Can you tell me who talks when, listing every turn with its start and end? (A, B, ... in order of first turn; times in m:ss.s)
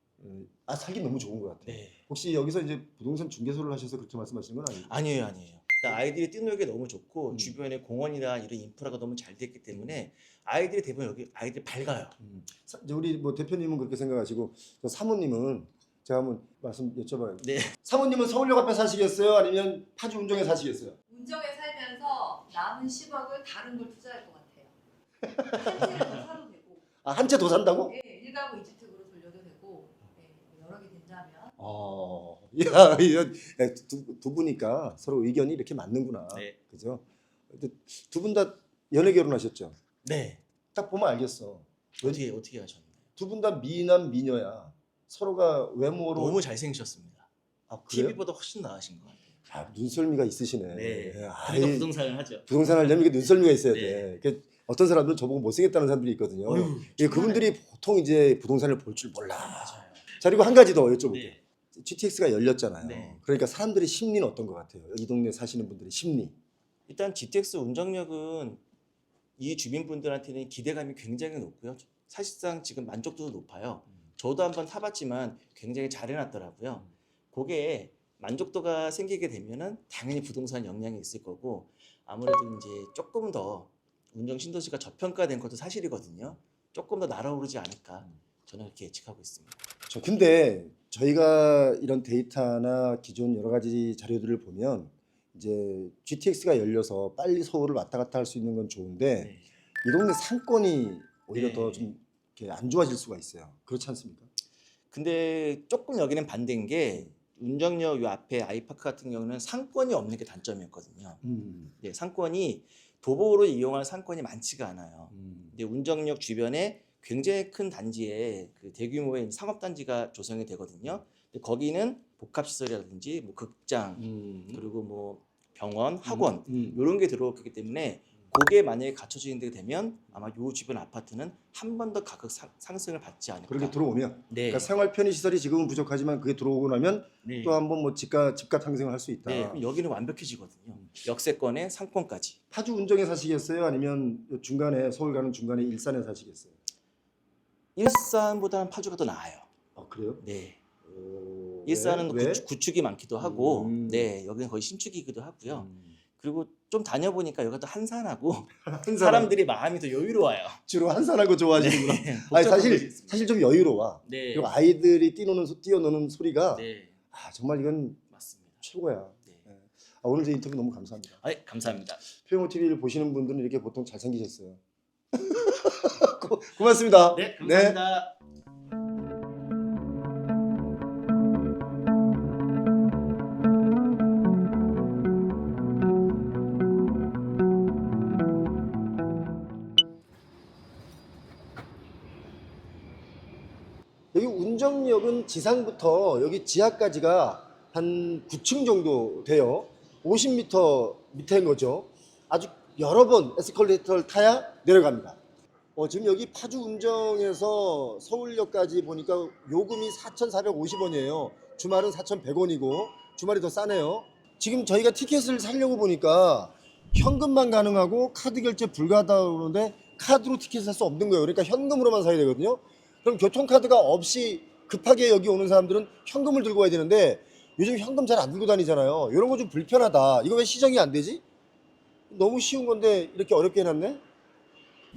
0:00.2-0:04.9 A
0:01.6-0:02.0 B
0:04.8-0:12.2 B
0:12.2-0:21.0 A
0:17.4-0:17.8 B
0:21.1-0:24.7 C
0:25.2-0:26.2 A
0:26.3-0:26.8 C
0:27.0-0:28.0 A
0:28.0-0:31.5 C
0:31.6-0:39.8 A
0:36.3-0:36.6 B
0:40.0-0:40.4 B
0:40.7-0:42.2 A
0:42.0-0:43.0 B
0:43.2-0:46.4 A
0:46.2-0:47.3 B
0:47.7-0:48.2 A
0:47.9-0:49.2 B
0:49.5-0:51.9 A
0:50.7-0:52.5 B
0:52.5-1:06.3 A
0:53.7-0:54.1 B
0:56.5-0:57.6 B
0:59.5-1:00.0 B
1:01.1-1:01.4 B
1:02.8-1:03.2 B
1:06.9-1:08.6 B
1:09.4-1:29.6 B
1:29.9-1:39.3 A
1:39.2-1:39.4 B
1:39.8-1:44.3 A
1:41.3-1:41.9 B
1:44.9-1:51.2 B
1:51.2-1:51.7 A
1:51.8-2:13.8 B
1:55.1-1:55.5 A
2:04.0-2:04.6 A
2:06.1-2:06.8 A
2:13.5-2:19.6 A
2:14.3-2:14.7 B
2:17.2-2:17.6 B
2:19.3-2:22.4 B
2:22.5-2:26.6 A
2:27.8-2:29.5 B
2:29.8-2:30.2 A
2:30.2-2:30.6 B
2:30.8-2:32.4 A
2:31.6-2:40.6 B
2:33.2-2:34.1 A
2:35.5-2:36.0 A
2:38.7-2:39.3 A
2:40.7-2:48.0 A
2:41.6-2:43.2 B
2:44.1-2:44.5 B
2:46.6-2:46.9 B
2:48.1-2:48.6 B
2:48.6-2:51.2 A
2:51.2-2:52.0 B
2:52.2-2:54.6 A
2:55.1-2:57.8 A
2:57.1-2:58.2 B
3:14.1-3:25.2 A
3:25.8-3:51.2 A
3:52.1-3:54.0 A